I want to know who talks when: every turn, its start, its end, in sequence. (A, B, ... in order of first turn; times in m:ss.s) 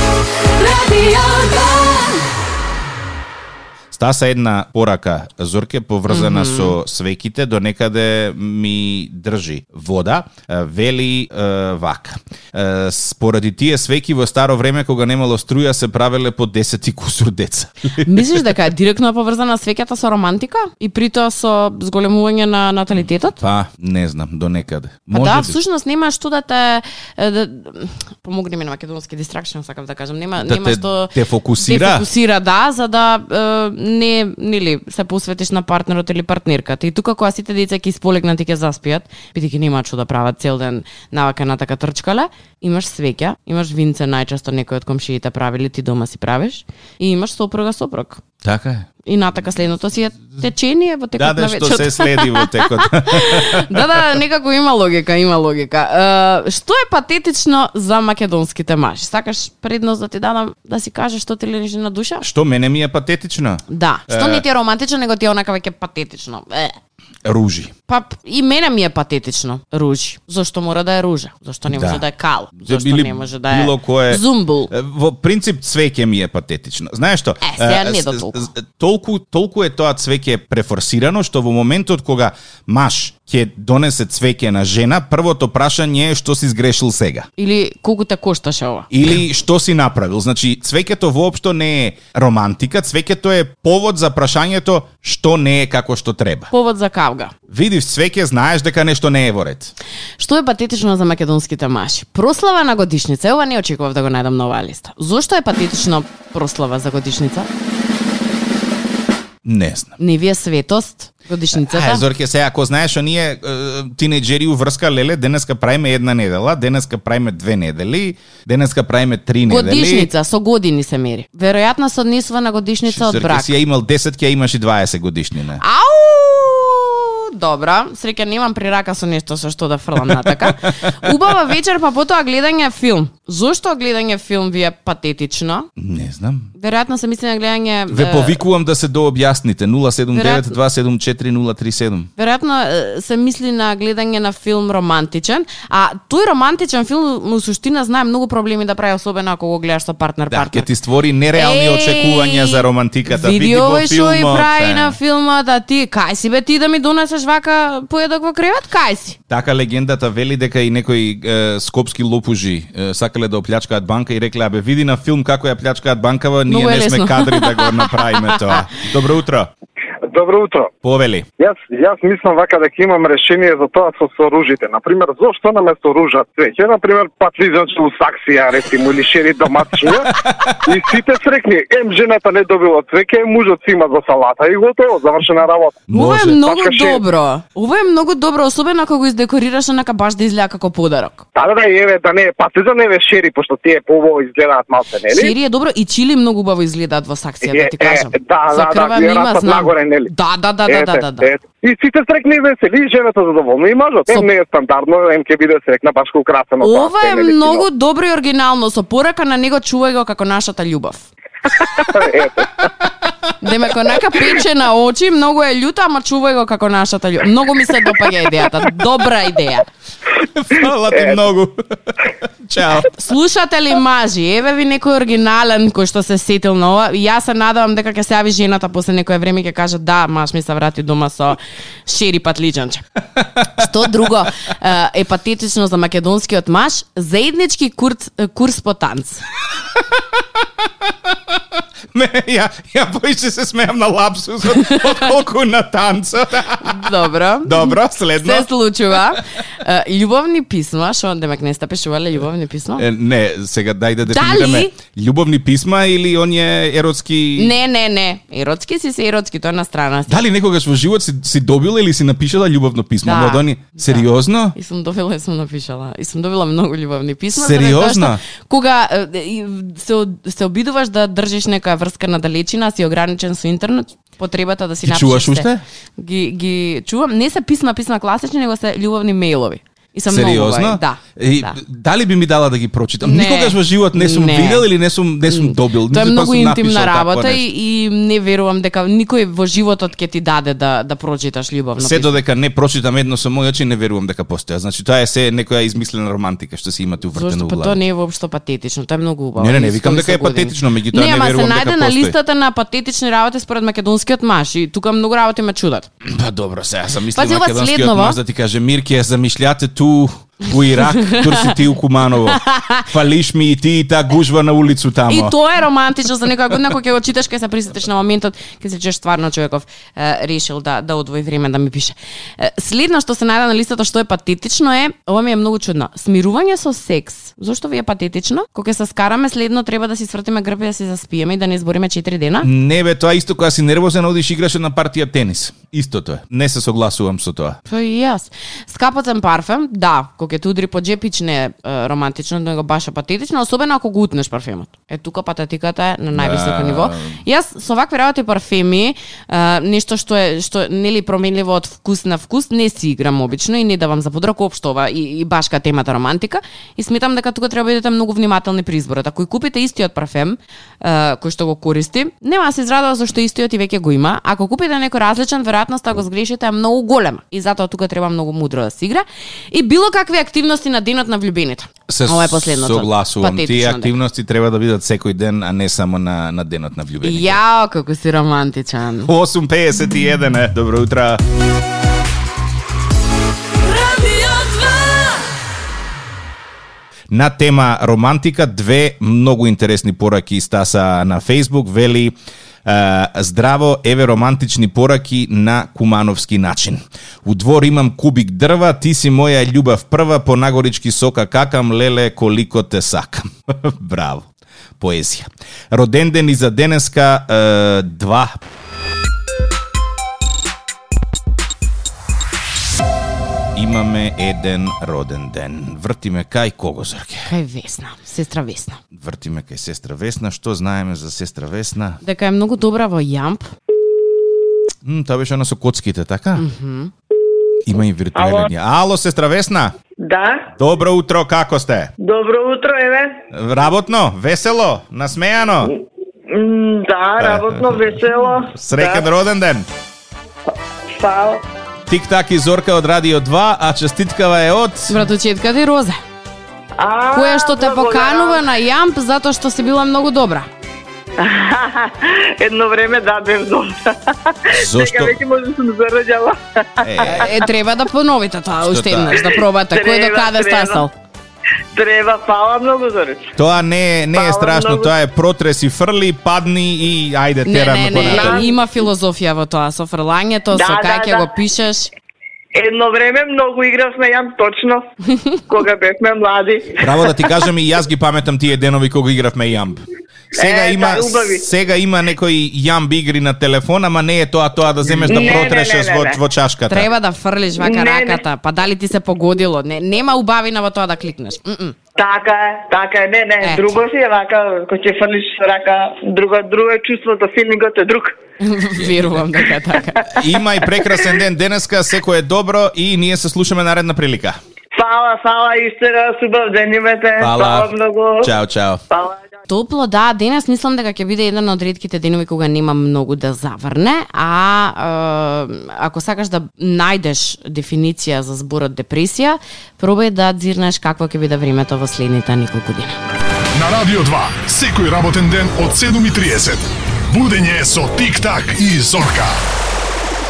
0:00.6-0:02.2 A
0:03.9-0:18.5 B
0:06.1-0:06.8 A
0:18.0-0:23.4 A
0:23.4-0:25.6 B
0:25.1-0:48.2 A
0:30.4-0:32.1 B
0:48.4-0:48.9 B
0:49.0-1:02.2 A
0:51.2-0:53.8 B
1:02.2-1:04.4 B
1:03.7-1:06.8 A
1:07.2-1:07.7 B
1:07.9-1:14.7 A
1:11.7-1:12.0 B
1:12.6-1:27.3 B
1:17.4-1:18.5 A
1:27.4-1:28.9 A
1:28.9-1:36.5 B
1:36.5-1:37.3 A
1:37.5-1:39.7 B
1:40.2-1:47.5 A
1:49.4-1:49.9 B
1:50.0-1:52.0 A
1:51.5-2:00.1 B
1:59.5-2:03.6 A
2:02.9-2:05.6 B
2:05.6-2:15.7 A
2:10.0-2:11.2 B
2:15.8-2:16.5 B
2:16.6-2:18.4 A
2:17.9-2:22.1 B
2:20.1-2:20.6 A
2:22.2-2:30.7 A
2:30.3-2:35.0 B
2:31.4-2:39.2 A
2:39.3-2:49.5 B
2:46.5-2:48.6 A
2:50.1-2:50.7 C
2:50.8-2:51.3 B
2:51.4-3:07.0 C
3:00.1-3:00.6 B
3:05.9-3:06.4 B
3:05.9-3:11.2 A
3:11.4-3:15.4 C
3:15.1-3:21.3 A
3:17.4-3:20.1 C
3:20.7-3:27.7 C
3:26.6-3:31.1 A
3:31.8-3:32.6 C
3:33.4-3:39.7 A
3:40.2-3:42.9 B
3:42.9-3:52.8 A
3:53.2-3:53.4 B
3:53.6-3:59.2 A
4:01.9-4:09.2 B
4:04.6-4:05.0 A
4:06.6-4:12.9 A
4:12.8-4:17.5 B
4:14.1-4:14.7 A
4:17.4-4:20.2 A
4:20.1-4:24.6 B
4:23.0-4:35.5 A
4:27.4-4:28.2 B
4:34.8-4:35.6 B
4:36.0-4:41.6 A
4:40.1-4:47.5 B
4:43.0-4:44.7 A
4:45.3-4:52.2 A
4:51.8-4:57.8 B
4:57.1-5:05.9 A
4:59.4-5:02.2 B
5:06.0-5:15.4 B
5:07.2-5:08.2 A
5:11.0-5:11.5 A
5:12.3-5:12.9 A
5:15.1-5:32.5 A
5:32.4-5:37.6 B
5:37.7-6:13.9 A
5:46.1-5:47.2 B
6:11.9-6:17.4 B
6:17.0-6:19.1 A
6:19.0-6:21.2 B
6:23.7-6:25.2 A
6:27.1-6:44.3 B
6:44.8-6:48.4 B
6:53.6-6:57.3 B
6:57.3-6:58.8 A
6:58.9-7:02.0 B
7:02.0-7:03.5 A
7:04.8-7:06.4 B
7:06.4-7:06.9 A
7:07.6-7:09.8 B
7:08.2-7:08.5 D
7:10.0-7:10.5 D
7:10.6-7:11.9 B
7:12.0-7:13.2 D
7:13.3-7:15.7 B
7:15.7-7:19.1 D
7:17.2-7:19.7 B
7:20.9-7:21.4 D
7:21.9-7:25.0 B
7:24.9-7:26.0 A
7:26.8-7:28.5 D
7:27.1-7:30.5 A
7:31.2-7:37.4 D
7:34.5-7:35.2 B
7:36.8-7:37.4 B
7:37.0-7:40.9 A
7:38.6-7:39.2 B
7:39.2-7:40.9 D
7:41.7-7:43.3 D
7:43.4-7:48.5 B
7:44.1-7:44.9 D
7:47.4-7:51.9 A
7:48.1-7:48.6 D
7:50.5-7:51.3 D
7:52.5-7:54.9 D
7:55.5-7:57.4 D
7:56.8-7:59.8 B
8:00.4-8:01.4 D
8:00.4-8:06.9 B
8:05.0-8:06.2 D
8:06.7-8:11.8 A
8:07.6-8:08.2 D
8:12.0-8:18.2 D
8:13.4-8:13.8 A
8:18.4-8:20.1 A
8:18.8-8:19.2 B
8:20.1-8:24.4 B
8:24.8-8:28.3 D
8:27.2-8:28.8 B
8:28.9-8:29.2 D
8:29.5-8:43.0 A
8:43.5-8:49.4 E